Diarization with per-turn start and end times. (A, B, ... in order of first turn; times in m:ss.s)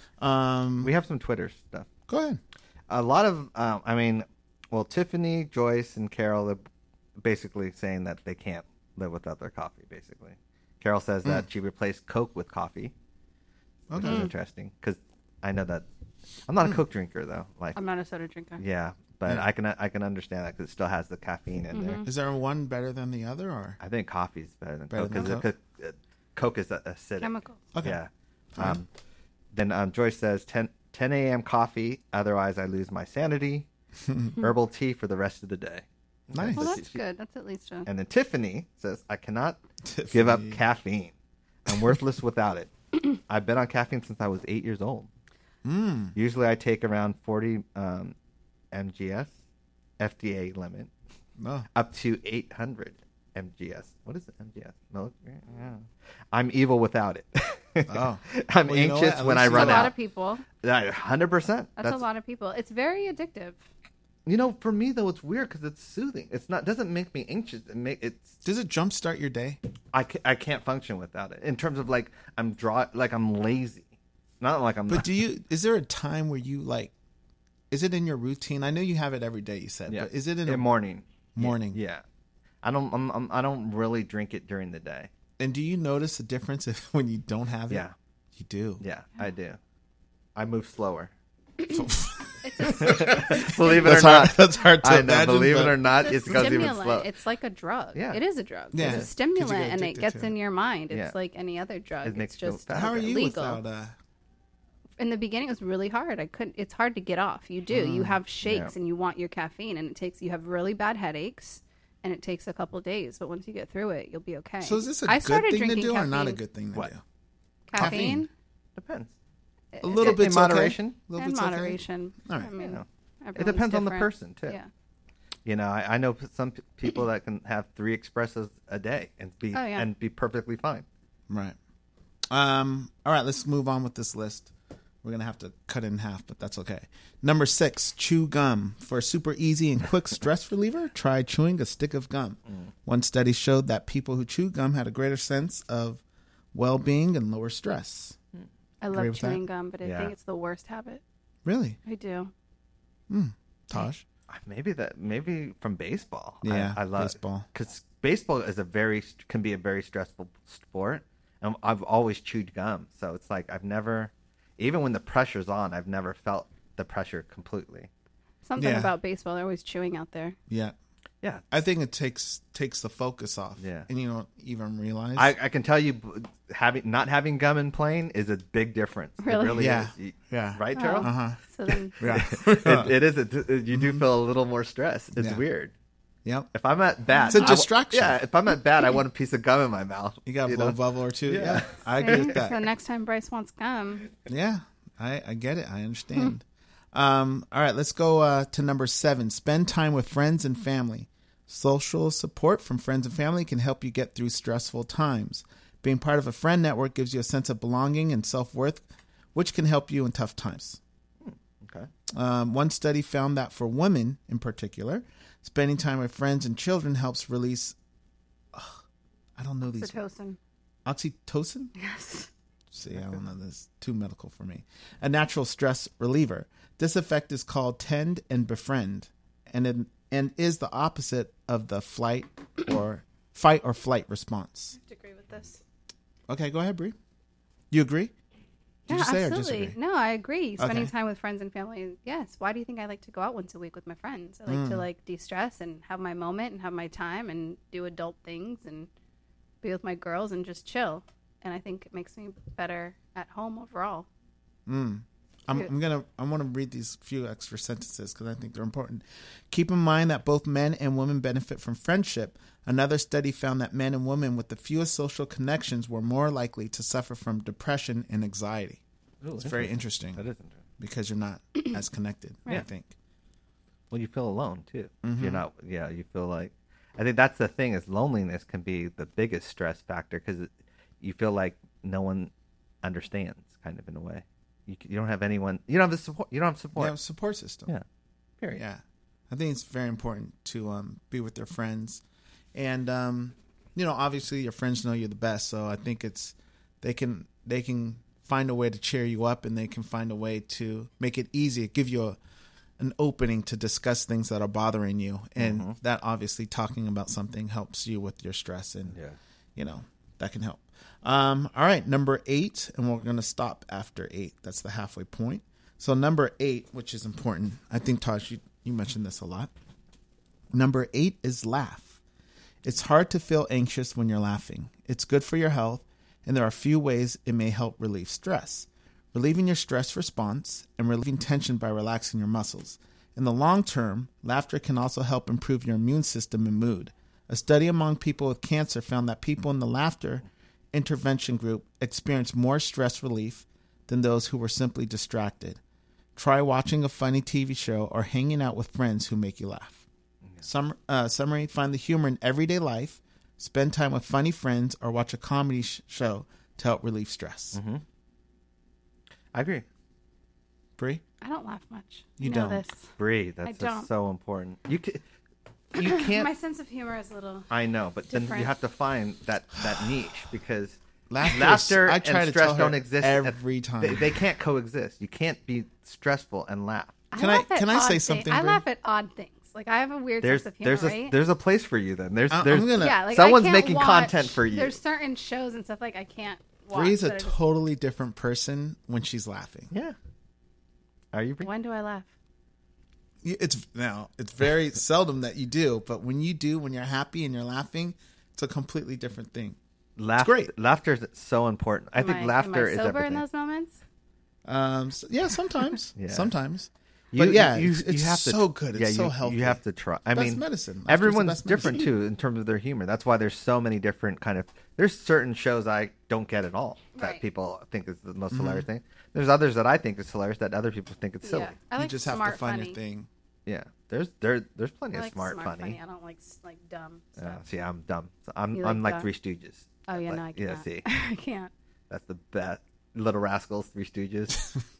0:00.2-0:00.9 A
0:00.8-0:01.9 B
0:02.1-0:02.4 A
0:02.9-0:06.6 B
0:07.2-0:12.9 B
0:13.9-0:14.3 A
0:13.9-0:15.8 B
0:14.0-0:14.3 C
0:16.5-0:17.8 B
0:17.7-0:18.6 C
0:18.6-0:22.0 B
0:21.7-0:22.1 C
0:22.0-0:23.8 A
0:23.8-0:28.9 B
0:24.9-0:25.4 A
0:27.2-0:27.6 C
0:27.7-0:28.0 A
0:28.5-0:28.8 A
0:29.5-0:33.7 B
0:34.4-0:37.0 B
0:36.3-0:36.8 A
0:36.6-0:37.9 C
0:37.8-0:39.6 B
0:39.8-0:40.6 A
0:40.1-0:41.1 B
0:41.6-0:45.1 B
0:45.6-0:46.2 A
0:46.1-0:48.1 B
0:48.7-0:49.3 B
0:50.0-0:50.9 B
0:51.4-0:51.7 A
0:51.7-0:59.9 B
0:57.9-0:59.9 A
0:59.5-1:00.4 C
1:00.6-1:02.0 B
1:01.8-1:03.6 C
1:04.2-1:08.4 B
1:08.4-1:09.6 A
1:09.9-1:13.9 B
1:14.4-1:15.1 B
1:14.9-1:16.9 A
1:17.7-1:20.6 A
1:19.9-1:22.0 B
1:21.3-1:21.8 A
1:22.6-1:25.1 B
1:25.4-1:28.8 A
1:28.8-1:29.6 B
1:30.4-1:31.1 B
1:31.6-1:31.9 C
1:31.7-1:35.8 A
1:32.4-1:33.8 C
1:32.6-1:37.1 B
1:36.0-1:43.6 C
1:37.9-1:38.2 B
1:38.7-1:40.3 A
1:38.8-1:39.1 B
1:40.9-1:41.1 B
1:42.0-1:43.0 B
1:42.7-1:44.0 A
1:45.0-1:56.4 C
1:47.8-1:48.1 A
1:48.4-1:48.7 B
1:54.6-1:57.0 A
1:57.7-1:58.3 C
1:57.8-1:58.2 A
1:57.8-1:58.1 B
1:58.8-1:59.1 B
1:59.7-2:00.2 C
1:59.8-2:02.5 A
2:00.0-2:01.0 B
2:01.2-2:04.7 C
2:02.6-2:04.6 B
2:05.4-2:10.8 B
2:09.5-2:09.9 C
2:11.3-2:11.6 A
2:12.3-2:14.5 A
2:15.0-2:26.0 A
2:26.5-2:28.2 A
2:28.8-2:31.0 C
2:28.9-2:29.4 A
2:29.8-2:30.1 B
2:31.4-2:31.8 A
2:31.8-2:32.3 C
2:33.1-2:34.0 A
2:34.3-2:47.9 B
2:36.4-2:37.5 A
2:48.4-2:50.4 C
2:48.6-2:48.9 A
2:50.5-2:50.7 A
2:51.5-2:55.3 A
2:53.6-2:53.9 B
2:55.2-3:01.1 B
2:59.2-2:59.6 C
2:59.5-3:01.4 A
3:00.7-3:01.9 C
3:02.0-3:05.7 B
3:02.0-3:03.0 A
3:03.7-3:04.0 A
3:05.2-3:05.4 A
3:06.2-3:06.5 A
3:06.5-3:12.4 B
3:07.1-3:07.5 C
3:07.3-3:08.2 A
3:10.2-3:12.6 A
3:12.0-3:14.0 C
3:14.3-3:30.8 A
3:31.2-3:31.9 B
3:32.1-3:37.8 A
3:38.5-3:38.8 A
3:39.4-3:40.0 A
3:39.7-3:40.4 C
3:40.8-3:41.7 A
3:41.8-3:42.3 C
3:42.7-3:54.8 A
3:54.7-3:55.6 C
3:56.3-3:56.9 A
3:57.7-3:58.1 A
3:58.9-3:59.8 A
3:58.9-4:08.9 C
4:00.6-4:00.9 A
4:04.5-4:04.8 A
4:09.6-4:14.1 C
4:14.6-4:28.8 A
4:29.2-4:30.6 B
4:29.4-4:30.2 A
4:30.8-4:32.9 A
4:33.9-4:42.3 B
4:35.0-4:35.4 A
4:42.8-4:47.0 B
4:46.8-4:47.7 A
4:48.6-4:52.0 A
4:52.5-5:02.2 A
5:02.8-5:09.0 A
5:05.4-5:05.8 B
5:09.6-5:19.5 A
5:20.5-5:22.0 A
5:22.6-5:45.6 A
5:46.2-5:49.8 A
5:50.4-5:57.6 A
5:57.5-5:57.8 B
5:59.3-5:59.6 B
6:00.8-6:01.0 A
6:01.2-6:02.9 C
6:02.2-6:02.6 A
6:03.0-6:05.0 B
6:03.4-6:03.9 C
6:05.7-6:06.3 B
6:05.8-6:07.5 C
6:07.5-6:17.0 B
6:08.1-6:08.5 C
6:11.1-6:14.2 A
6:17.1-6:21.2 C
6:17.1-6:18.6 A
6:20.2-6:24.8 B
6:22.3-6:23.0 A
6:22.8-6:27.4 C
6:26.7-6:29.7 A
6:29.7-6:30.0 B
6:31.1-6:31.5 B
6:31.4-6:32.1 C
6:33.2-6:39.6 A
6:40.0-6:43.2 B
6:40.2-6:40.5 A
6:42.0-6:43.8 C
6:44.4-6:49.6 A
6:46.0-6:46.3 B
6:47.1-7:01.5 B
6:50.1-6:51.9 A
6:57.0-6:57.2 C
6:58.3-6:58.6 A
7:01.2-7:02.8 C
7:01.8-7:03.1 A
7:03.4-7:05.8 B
7:04.9-7:07.4 C
7:07.2-7:10.8 B
7:08.5-7:09.1 C
7:09.9-7:11.5 C
7:11.9-7:14.5 B